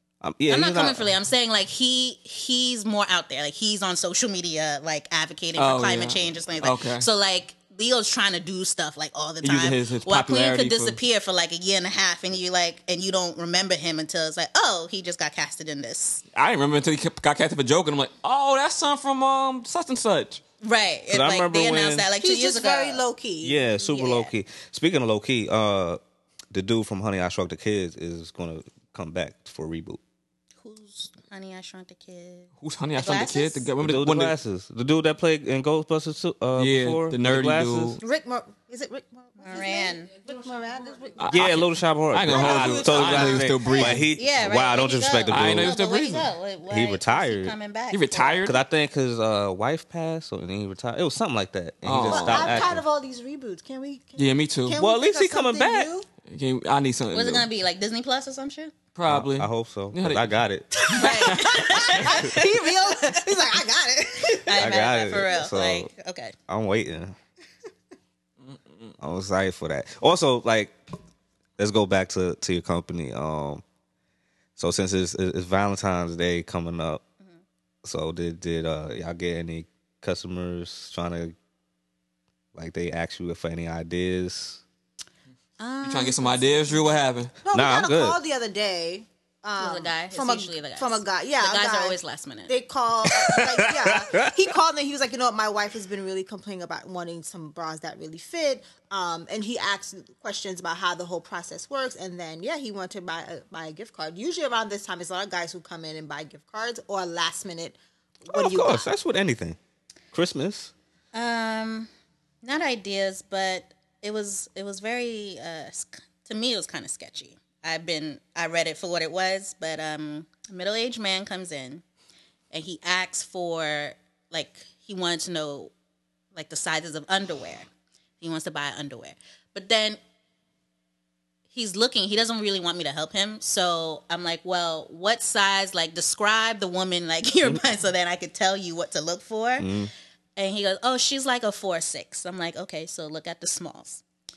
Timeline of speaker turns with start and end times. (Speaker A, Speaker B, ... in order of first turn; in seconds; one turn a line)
Speaker A: 0.2-1.1
Speaker B: 0.5-16.2
Speaker C: 5.6-7.0
Speaker C: 9.4-11.0
Speaker C: 16.3-20.4
Speaker B: 20.6-23.0
Speaker A: 21.1-22.1
Speaker D: 22.2-23.6
Speaker A: 23.4-26.0
Speaker B: 23.9-24.3
Speaker A: 26.5-30.0
Speaker B: 30.6-33.7
Speaker C: 32.6-34.3
Speaker A: 33.8-38.0
Speaker C: 36.6-38.0
Speaker D: 38.0-41.5
Speaker B: 39.4-40.1
Speaker C: 41.2-44.0
Speaker A: 41.3-45.7
Speaker D: 42.3-43.9
Speaker B: 44.1-48.4
Speaker C: 45.3-46.3
Speaker A: 46.7-47.5
Speaker C: 47.9-48.6
Speaker A: 48.4-52.8
Speaker C: 51.8-52.7
Speaker D: 52.0-56.1
Speaker C: 54.2-54.8
Speaker A: 54.8-55.9
Speaker C: 56.3-57.5
Speaker B: 57.1-58.7
Speaker C: 58.9-60.3
Speaker A: 59.1-60.7
Speaker B: 60.9-63.1
Speaker D: 60.9-64.6
Speaker C: 61.0-62.1
Speaker B: 64.4-66.3
Speaker A: 64.5-65.9
Speaker A: 66.5-67.2
Speaker C: 68.4-68.9
Speaker A: 69.0-70.7
Speaker A: 71.6-73.6
Speaker A: 74.5-77.0
Speaker A: 77.8-81.3
Speaker A: 82.5-84.6
Speaker B: 85.6-87.0
Speaker C: 85.8-87.3
Speaker D: 87.4-108.9
Speaker A: 87.5-88.2
Speaker B: 89.6-92.5
Speaker A: 93.0-94.5
Speaker A: 108.3-109.6
Speaker A: 110.1-110.7
Speaker B: 111.1-111.9
Speaker B: 112.4-121.8
Speaker B: 122.5-125.7
Speaker B: 126.3-127.7
Speaker B: 128.2-130.0
Speaker B: 131.5-139.7
Speaker A: 139.6-139.9
Speaker B: 140.3-144.0